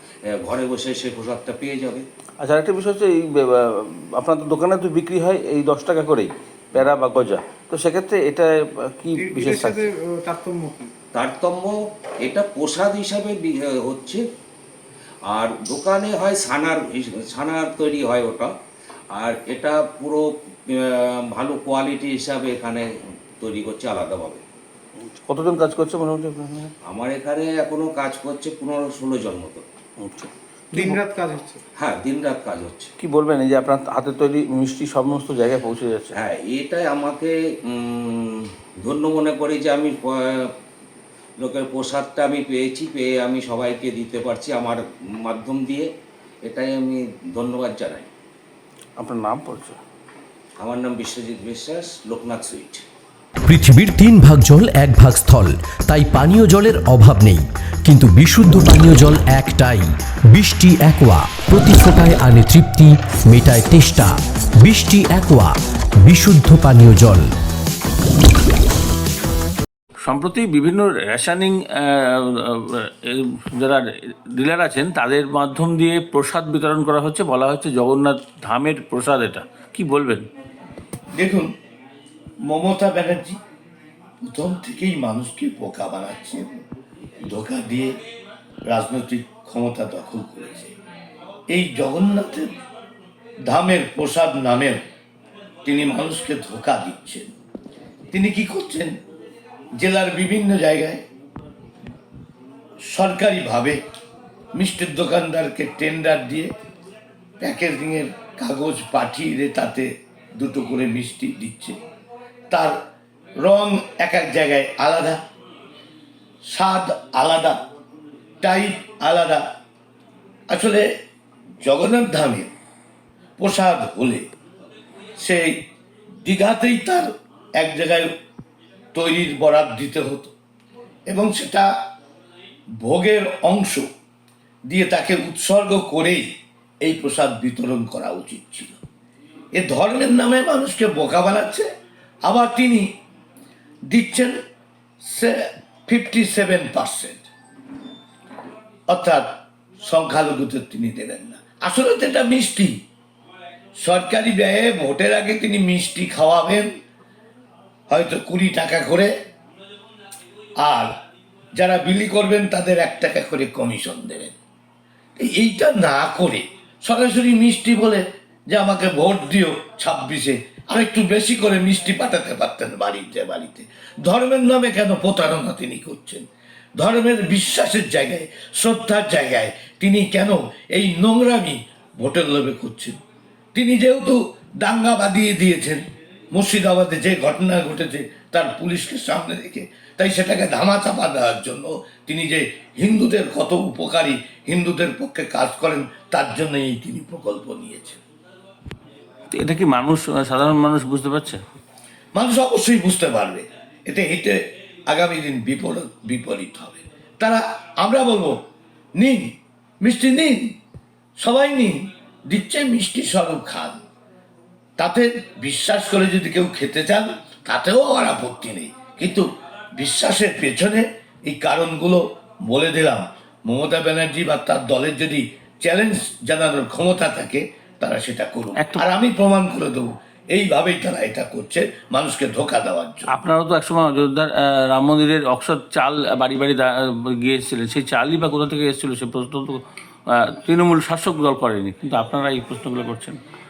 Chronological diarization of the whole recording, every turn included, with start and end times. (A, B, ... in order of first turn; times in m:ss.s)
0:00.3-0:02.0 A
0:02.4-0:09.9 B
0:09.2-0:10.9 C
0:11.1-0:11.7 A
0:12.2-0:14.2 A
0:15.3-0:18.5 A
0:19.1-0:22.8 A
0:23.4-0:24.4 A
0:25.1-0:26.7 B
0:26.9-0:29.6 A
0:30.0-0:31.0 B
0:30.7-0:31.6 C
0:31.8-0:32.9 A
0:33.0-0:36.1 B
0:36.1-0:40.4 A
0:41.4-0:45.9 A
0:46.4-0:48.1 A
0:49.0-0:49.8 B
0:50.6-0:52.8 A
0:53.5-1:07.2 D
1:10.0-1:20.3 B
1:21.1-1:21.5 E
1:22.4-1:23.4 E
1:24.2-1:26.6 E
1:27.3-1:27.9 E
1:28.7-1:30.7 E
1:31.5-1:32.5 E
1:33.4-1:34.8 E
1:35.6-1:37.3 E
1:38.1-1:38.9 E
1:39.8-1:41.0 E
1:42.9-1:43.8 E
1:44.5-1:46.5 E
1:47.4-1:51.7 E
1:52.5-1:52.8 E
1:53.4-1:55.2 E
1:56.4-1:57.6 E
1:58.4-1:59.4 E
2:00.5-2:00.8 E
2:01.6-2:02.5 E
2:03.4-2:04.2 E
2:05.2-2:05.5 E
2:06.2-2:07.1 E
2:07.6-2:08.1 E
2:08.9-2:10.3 E
2:11.1-2:11.7 E
2:12.8-2:13.8 E
2:14.7-2:16.2 E
2:16.8-2:18.7 E
2:19.5-2:21.6 E
2:22.2-2:22.8 E
2:23.9-2:24.4 E
2:25.0-2:25.3 E
2:25.9-2:27.2 E
2:28.9-2:29.2 E
2:29.8-2:32.7 E
2:33.8-2:36.7 E
2:37.9-2:39.1 E
2:40.6-2:40.9 E
2:41.6-2:44.3 E
2:45.2-2:56.2 E
2:56.8-3:02.9 E
3:03.5-3:05.8 E
3:06.3-3:18.0 E
3:19.3-3:21.4 B
3:22.1-3:24.4 E
3:24.9-3:28.4 E
3:29.0-3:30.5 E
3:31.2-3:33.8 E
3:34.8-3:39.2 E
3:39.8-3:53.1 E
3:48.6-3:48.8 B
3:53.1-4:03.2 B